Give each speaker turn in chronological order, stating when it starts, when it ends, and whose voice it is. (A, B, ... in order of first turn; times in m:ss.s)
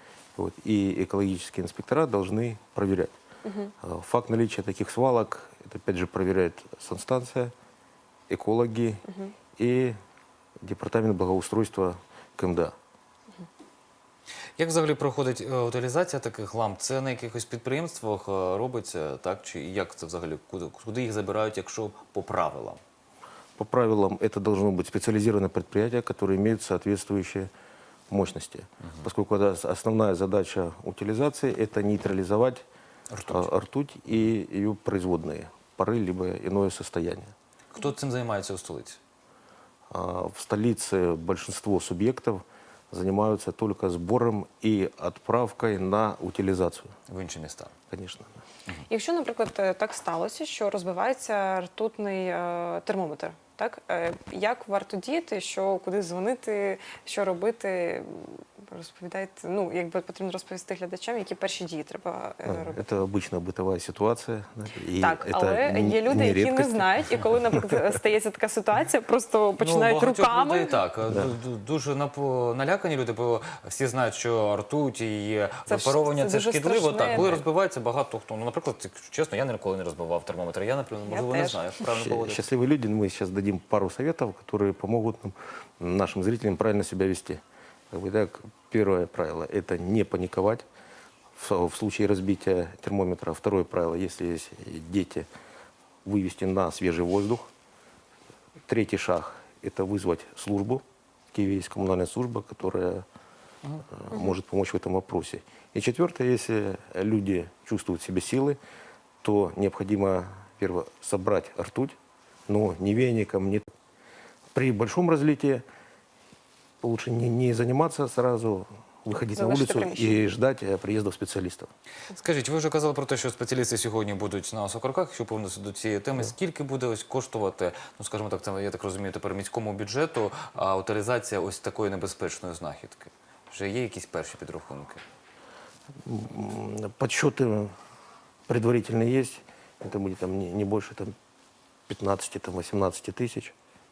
0:00.4-0:03.1 A
0:03.4-0:03.7 B
0:03.8-0:07.5 A
0:08.3-0:09.0 A
0:09.1-0:09.3 B
0:09.6-0:10.0 A
0:10.6-0:12.8 A
0:14.6-0:22.8 C
0:23.6-0:27.5 A
0:28.1-0:32.6 A
0:33.1-0:33.5 C
0:33.3-0:37.3 A
0:37.7-0:39.0 C
0:39.9-0:46.9 A
0:47.1-0:47.7 C
0:47.9-0:48.3 A
0:48.9-1:02.8 B
1:02.4-1:07.8 A
1:05.0-1:10.8 B
1:09.6-1:22.5 C
1:15.7-1:17.4 B
1:21.1-1:21.6 B
1:21.8-1:30.6 A
1:31.4-1:35.3 A
1:36.0-1:37.5 A
1:38.7-1:43.0 A
1:43.9-1:48.6 A
1:49.2-1:52.0 A
1:52.5-1:53.7 A
1:54.5-1:55.6 A
1:56.8-2:01.7 A
1:59.3-2:00.2 B
2:02.1-2:15.0 C
2:16.0-2:17.8 A
2:18.5-2:21.1 A
2:21.9-2:23.5 A